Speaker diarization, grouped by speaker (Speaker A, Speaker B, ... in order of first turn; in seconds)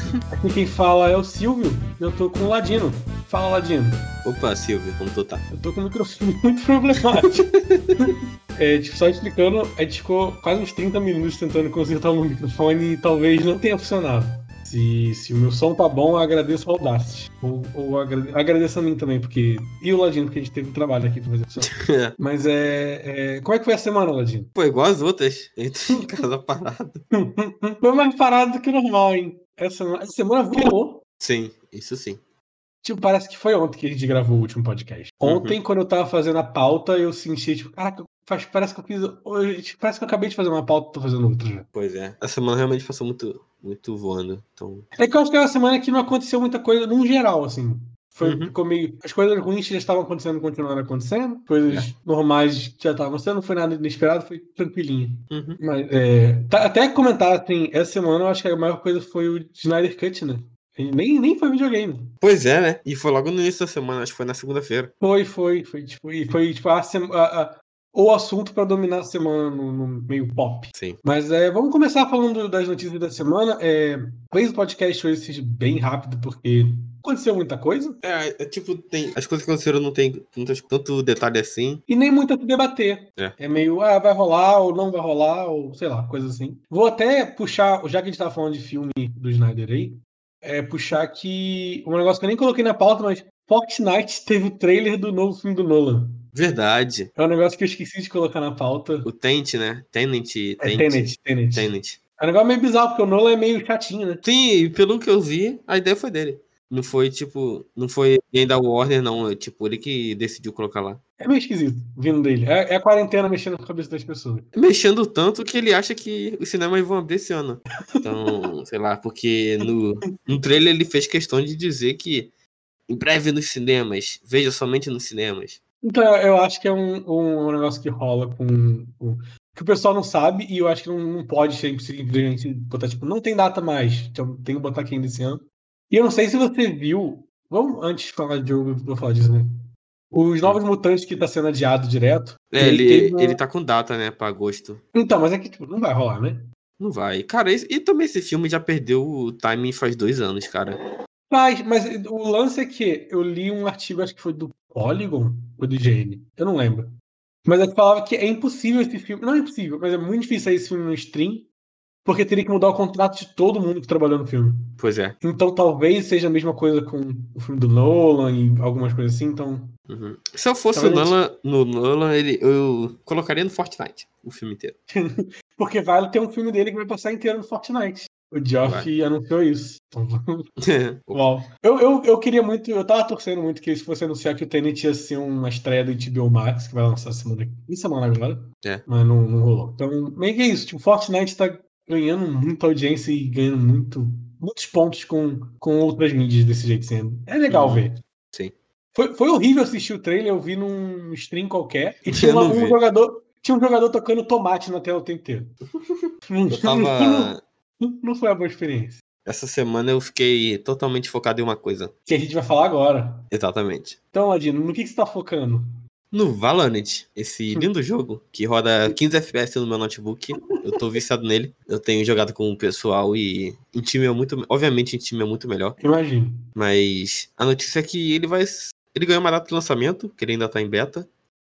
Speaker A: 0.4-4.1, 5.5-7.4, 8.0-24.5, 25.9-26.2, 27.1-31.0, 32.8-41.7, 45.0-62.1, 65.0-78.0, 81.9-96.2, 97.2-99.1, 100.6-104.2, 111.2-114.5, 118.0-118.3, 125.8-139.5, 140.1-143.4, 144.9-146.5, 151.3-156.9, 157.5-161.5, 162.1-169.7, 170.7-171.2, 174.9-180.5, 181.1-198.0, 198.9-205.5, 206.3-209.0, 212.1-213.3, 214.1-215.7, 225.8-226.5
Speaker B: 4.2-5.5, 7.4-7.9, 21.6-22.2, 24.6-27.0, 31.2-32.2, 35.2-35.6, 41.7-44.9, 48.2-48.5, 55.3-55.6, 62.2-64.9, 70.7-71.0, 78.0-81.8, 96.3-97.1, 99.0-102.0, 104.2-111.0, 114.5-122.3, 122.9-125.6, 142.5-144.8, 146.8-150.8, 164.8-165.2, 169.9-174.8, 178.6-178.9, 180.6-181.2, 197.5-198.5, 202.1-202.8, 206.5-207.4, 209.2-211.9, 213.3-214.0, 216.1-225.8, 226.6-231.1